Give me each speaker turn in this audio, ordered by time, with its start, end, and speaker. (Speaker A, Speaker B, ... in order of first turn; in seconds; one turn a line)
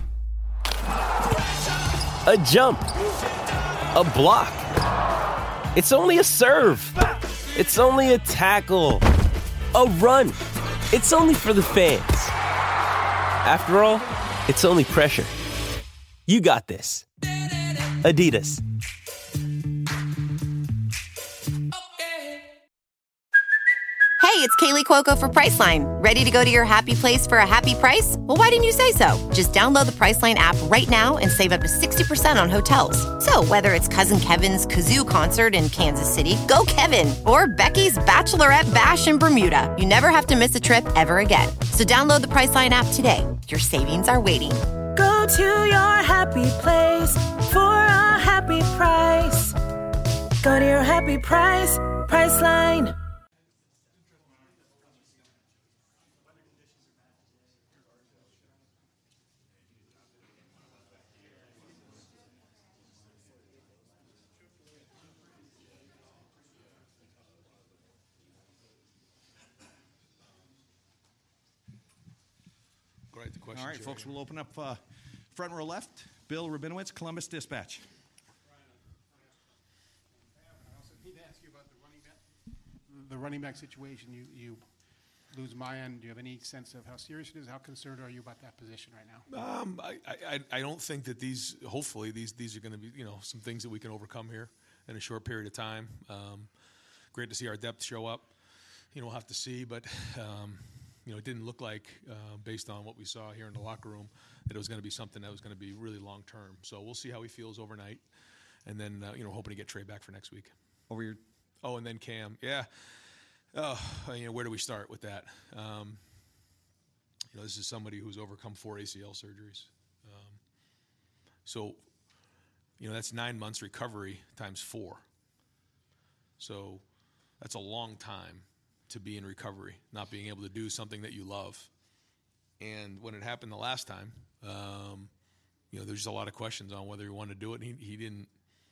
Speaker A: 2.2-2.9
Speaker A: 3.9-4.7
Speaker A: 5.7-7.0
Speaker A: 7.5-9.0
Speaker A: 9.7-10.4
Speaker A: 10.9-12.3
Speaker A: 13.4-15.3
Speaker A: 16.3-17.0
Speaker A: 18.0-18.6
Speaker B: 24.2-44.6
Speaker C: 44.9-49.5
Speaker C: 50.4-52.9
Speaker D: 73.1-74.2
Speaker E: 73.5-77.8
Speaker F: 80.3-82.2
Speaker F: 82.9-84.6
Speaker F: 85.3-89.2
Speaker D: 89.3-96.5
Speaker D: 97.1-98.3
Speaker D: 98.9-108.0
Speaker D: 108.6-110.5
Speaker E: 110.9-111.2
Speaker D: 111.6-116.0
Speaker D: 117.3-120.4
Speaker D: 121.4-121.8
Speaker D: 122.8-125.0
Speaker D: 126.4-126.8
Speaker D: 127.4-131.7
Speaker D: 132.6-135.1
Speaker D: 135.7-138.3